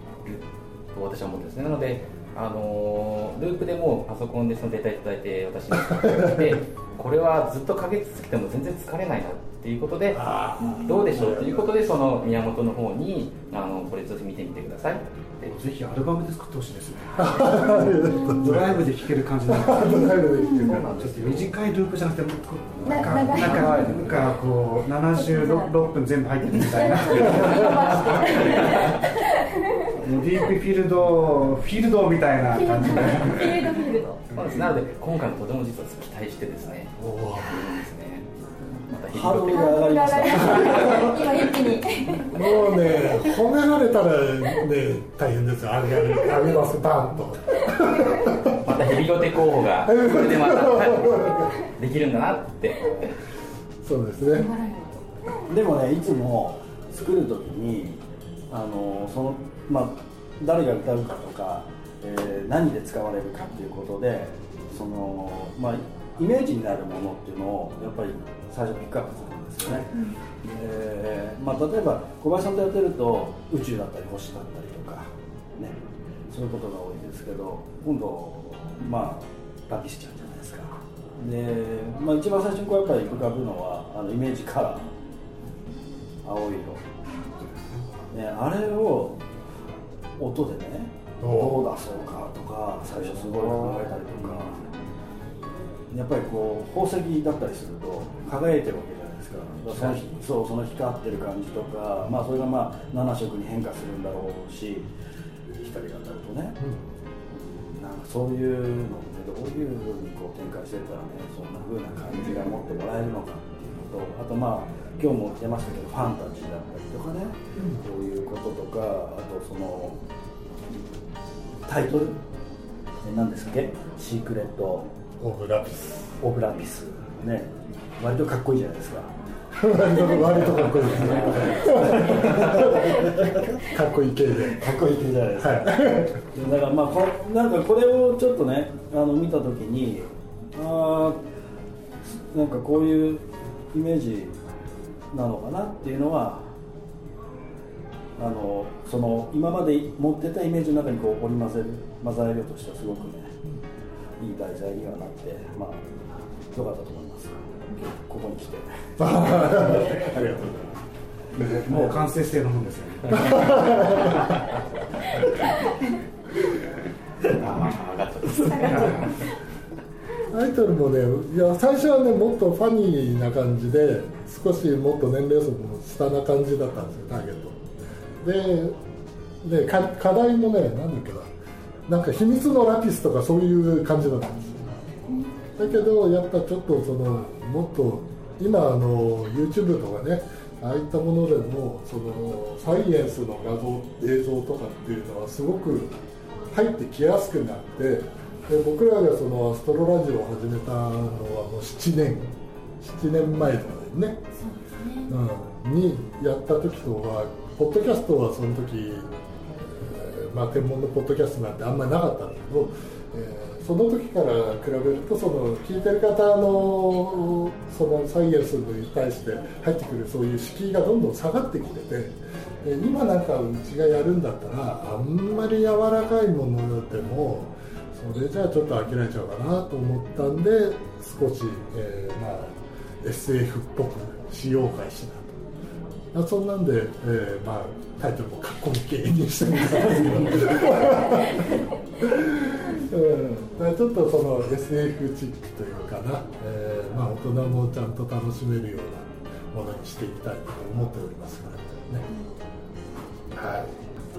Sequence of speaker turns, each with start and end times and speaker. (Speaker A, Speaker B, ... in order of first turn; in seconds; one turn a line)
Speaker A: 0.2-15.5
Speaker B: 5.9-6.4
Speaker B: 10.1-11.8
Speaker C: 15.4-28.9
Speaker B: 17.2-21.1
Speaker D: 17.8-18.6
Speaker D: 20.1-20.8
Speaker A: 20.7-21.5
Speaker D: 22.9-24.1
Speaker D: 25.1-25.9
Speaker D: 26.5-30.4
Speaker B: 27.4-27.7
Speaker C: 30.0-33.7
Speaker D: 32.5-34.2
Speaker C: 34.3-34.7
Speaker A: 34.3-38.3
Speaker B: 37.0-37.7
Speaker A: 38.9-40.0
Speaker E: 39.1-41.8
Speaker D: 39.5-43.3
Speaker A: 40.5-41.1
Speaker B: 42.3-48.7
Speaker A: 48.5-53.1
Speaker B: 49.8-51.5
Speaker B: 53.8-54.5
Speaker D: 54.3-55.0
Speaker E: 55.5-69.9
Speaker E: 70.5-75.8
Speaker E: 76.3-84.9
Speaker E: 86.2-86.8
Speaker E: 88.1-89.2
Speaker E: 90.2-94.6
Speaker B: 91.2-91.7
Speaker E: 95.9-104.9
Speaker B: 99.7-100.0
Speaker E: 105.6-106.6
Speaker E: 107.3-120.0
Speaker B: 117.6-117.8
Speaker E: 121.7-122.2
Speaker E: 123.0-124.9
Speaker B: 125.2-126.2
Speaker E: 126.2-129.1
Speaker B: 129.5-134.6
Speaker E: 129.9-133.8
Speaker E: 134.5-141.2
Speaker B: 135.4-136.2
Speaker E: 142.0-144.4
Speaker E: 145.1-146.5
Speaker E: 148.2-153.4
Speaker E: 154.2-155.9
Speaker E: 156.5-160.1
Speaker B: 159.0-160.8
Speaker B: 161.4-161.8
Speaker C: 161.4-164.3
Speaker B: 163.1-164.3
Speaker A: 167.4-169.3
Speaker C: 168.4-169.0
Speaker B: 170.3-177.6
Speaker B: 178.2-178.8
Speaker B: 179.4-181.3
Speaker B: 181.9-184.8
Speaker B: 185.6-196.0
Speaker B: 196.5-204.3
Speaker B: 205.1-235.4
Speaker B: 236.1-252.1
Speaker B: 253.3-253.8